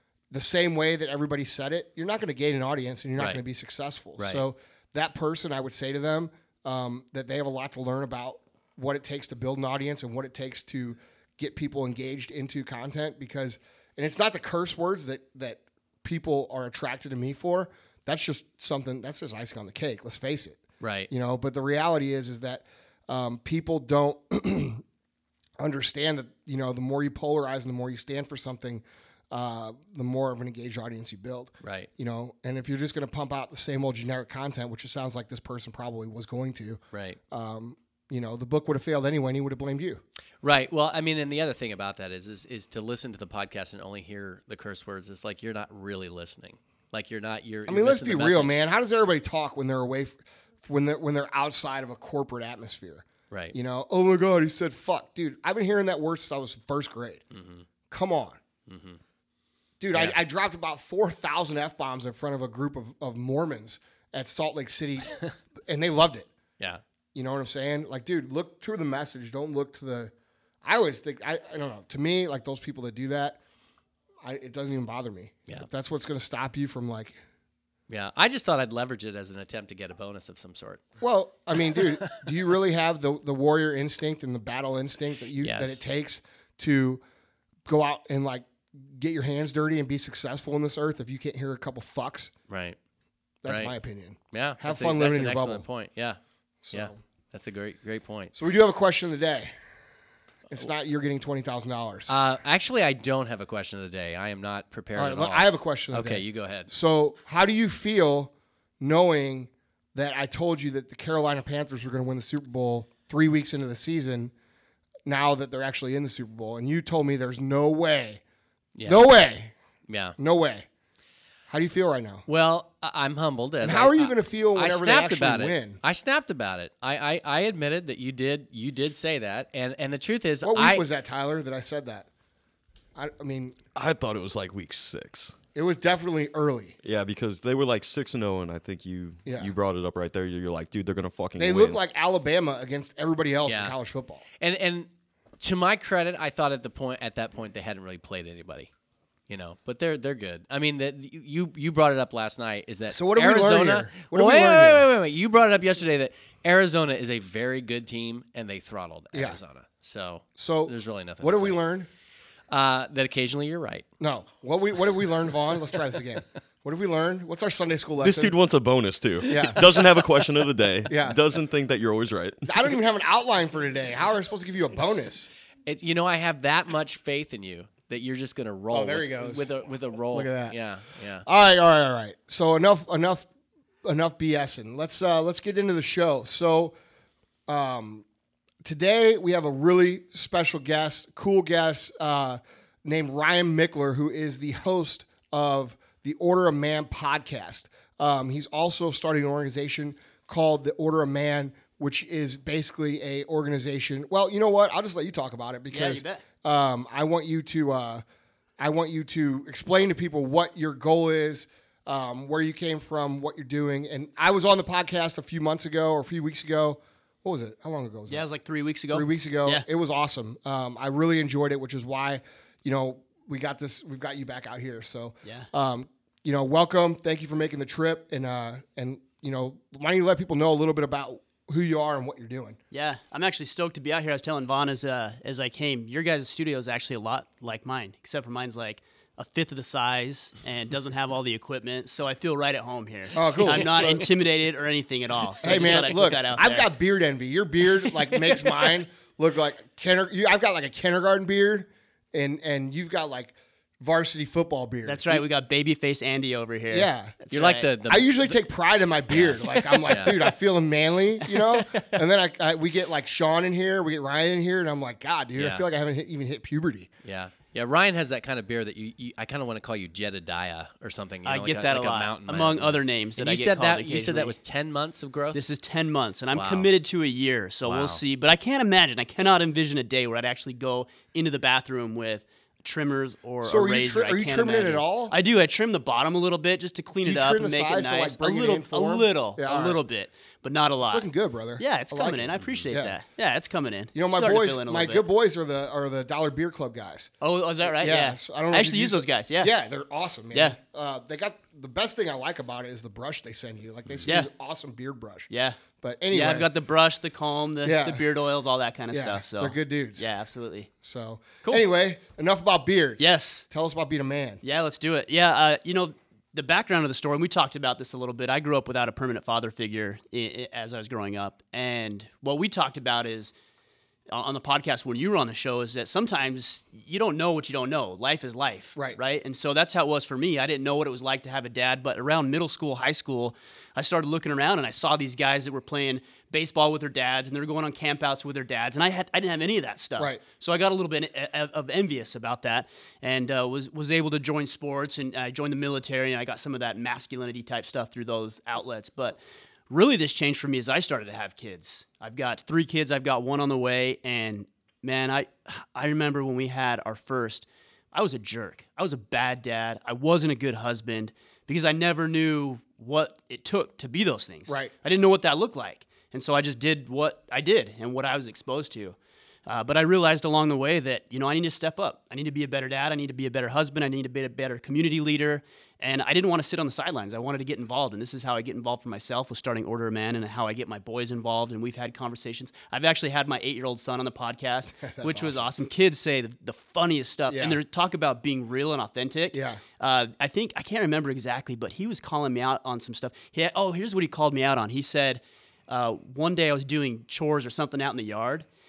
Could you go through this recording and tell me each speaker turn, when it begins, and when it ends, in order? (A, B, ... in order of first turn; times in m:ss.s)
0:00.3-0:24.8 A
0:04.2-0:04.4 B
0:20.8-0:21.1 B
0:25.6-0:40.0 A
0:31.6-0:31.9 B
0:36.9-0:37.2 B
0:40.4-0:48.6 B
0:47.7-0:57.2 A
0:57.3-0:57.6 B
0:57.9-0:58.4 A
0:58.7-0:59.0 B
0:59.8-1:06.3 A
1:07.1-1:10.1 A
1:10.6-1:13.4 A
1:14.2-1:17.2 A
1:17.9-1:20.8 B
1:21.0-1:27.0 A
1:21.7-1:22.1 B
1:25.4-1:25.8 B
1:27.6-1:32.3 A
1:32.5-1:32.8 B
1:33.4-1:35.6 A
1:33.5-1:33.7 B
1:34.3-1:36.2 B
1:36.6-1:37.0 A
1:36.7-1:38.3 B
1:38.3-1:39.5 A
1:40.5-1:42.1 A
1:42.1-1:46.7 B
1:45.0-1:54.3 A
1:55.1-1:58.2 A
1:58.8-1:59.1 B
1:58.8-1:59.5 A
1:59.9-2:00.2 B
2:00.2-2:00.6 A
2:01.5-2:02.2 A
2:02.2-2:10.8 B
2:03.6-2:05.8 A
2:10.4-2:12.1 A
2:13.0-2:13.6 A
2:13.7-2:15.4 C
2:15.5-2:16.7 A
2:16.8-2:21.8 C
2:19.2-2:19.5 A
2:21.4-2:24.2 A
2:23.5-2:23.7 B
2:24.4-2:24.9 B
2:25.4-2:28.7 B
2:29.3-2:41.6 B
2:32.9-2:34.9 A
2:40.4-2:41.9 A
2:42.5-2:43.8 B
2:44.0-2:48.4 A
2:48.0-2:52.5 C
2:49.2-2:49.6 A
2:50.8-2:51.2 A
2:52.4-2:55.3 A
2:55.6-3:01.2 B
2:58.7-2:59.5 A
3:00.1-3:00.6 A
3:01.2-3:03.3 A
3:03.8-3:06.7 A
3:07.5-3:08.0 A
3:08.6-3:28.0 A
3:25.7-3:26.2 D
3:28.6-3:38.2 A
3:38.1-3:39.6 D
3:38.9-3:52.6 A
3:52.7-4:06.7 D
4:03.1-4:04.1 A
4:05.4-4:15.2 A
4:14.8-4:17.7 D
4:16.7-4:17.1 A
4:17.3-4:18.3 B
4:17.8-4:26.9 A
4:19.6-4:20.3 D
4:19.9-4:20.2 B
4:21.3-4:21.9 D
4:25.4-4:25.7 B
4:27.0-4:35.4 B
4:31.2-4:34.4 D
4:35.3-4:51.1 D
4:36.3-4:36.7 B
4:37.6-4:38.0 B
4:43.4-4:45.1 A
4:47.0-4:49.8 A
4:50.8-4:53.0 A
4:51.6-4:55.0 D
4:52.4-4:52.6 B
4:53.9-4:57.1 A
4:57.2-4:59.5 D
4:57.6-5:05.3 A
5:05.3-5:10.7 D
5:05.8-5:06.5 A
5:07.6-5:08.0 A
5:08.9-5:10.1 A
5:10.8-5:14.4 A
5:13.0-5:13.4 D
5:14.4-5:23.3 D
5:24.1-5:49.2 D
5:49.7-6:38.4 D
6:24.8-6:25.5 A
6:27.3-6:27.6 A
6:29.3-6:29.6 A